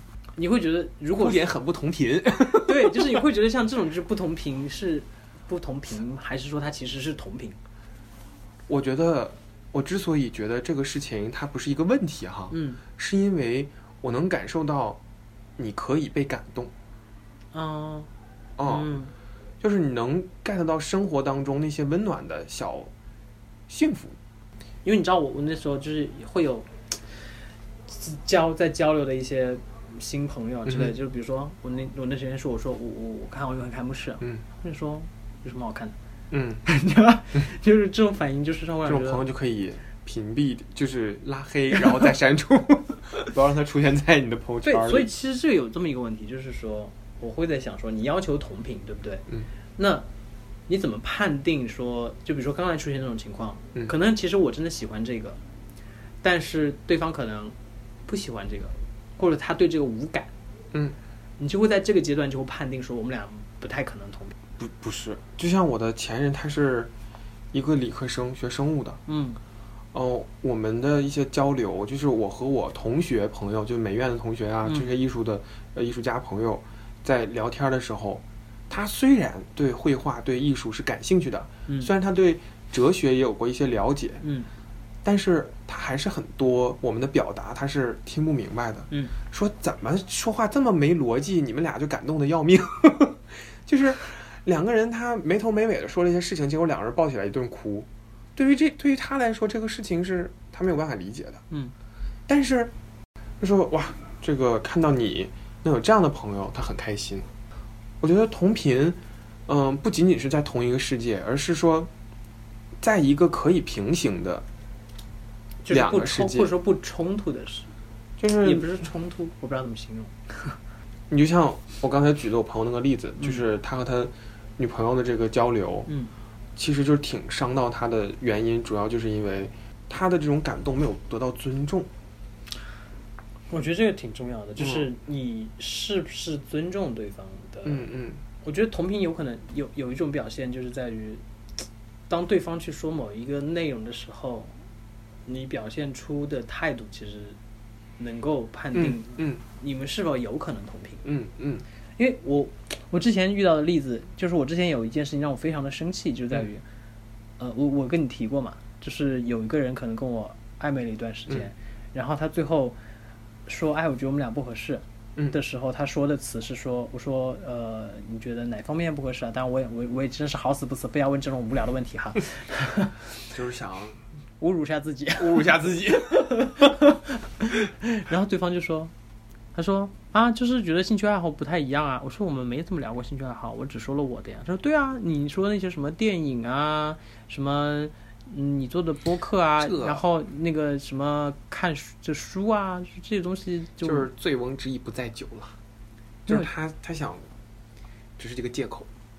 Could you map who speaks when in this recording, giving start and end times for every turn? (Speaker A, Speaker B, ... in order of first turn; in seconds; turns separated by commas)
Speaker A: 0.4-1.5, Speaker B: 1.2-3.0, Speaker A: 2.5-7.6, Speaker B: 8.7-15.0, Speaker A: 12.5-12.8, Speaker B: 15.6-16.7, Speaker A: 17.5-18.1, Speaker B: 18.6-19.0, Speaker A: 18.6-19.1, Speaker B: 19.6-22.9, Speaker B: 23.7-24.2, Speaker A: 24.8-27.4, Speaker A: 27.9-36.0, Speaker B: 30.7-30.9, Speaker B: 36.3-36.6, Speaker A: 36.6-39.2, Speaker B: 38.9-45.1, Speaker A: 44.6-49.3, Speaker A: 49.8-50.1, Speaker A: 50.7-55.4, Speaker A: 56.2-60.3, Speaker A: 61.4-64.3, Speaker B: 64.6-66.9, Speaker B: 67.5-69.0, Speaker A: 69.1-69.4, Speaker B: 69.9-84.2, Speaker A: 74.7-74.9, Speaker A: 84.2-84.5, Speaker B: 85.0-101.4, Speaker B: 102.3-102.7, Speaker B: 103.4-107.3, Speaker B: 108.0-111.9, Speaker B: 112.8-114.5, Speaker A: 115.6-117.7, Speaker B: 115.7-116.5, Speaker B: 118.2-118.8, Speaker A: 118.4-120.6, Speaker B: 121.1-125.9, Speaker A: 125.9-126.1, Speaker B: 126.6-131.9, Speaker A: 133.5-137.9, Speaker B: 134.6-134.9, Speaker B: 137.7-138.2, Speaker A: 138.4-141.2, Speaker A: 142.1-144.6, Speaker A: 145.3-147.4, Speaker A: 148.0-151.1, Speaker B: 148.7-149.4, Speaker B: 151.1-151.7, Speaker A: 152.0-156.7, Speaker A: 157.4-162.8, Speaker A: 163.5-173.1, Speaker B: 173.3-174.0, Speaker A: 174.4-175.6, Speaker B: 175.2-176.7, Speaker A: 176.2-178.9, Speaker A: 179.5-194.1, Speaker B: 189.6-190.0, Speaker B: 193.8-195.6, Speaker B: 196.3-197.3, Speaker B: 198.2-198.9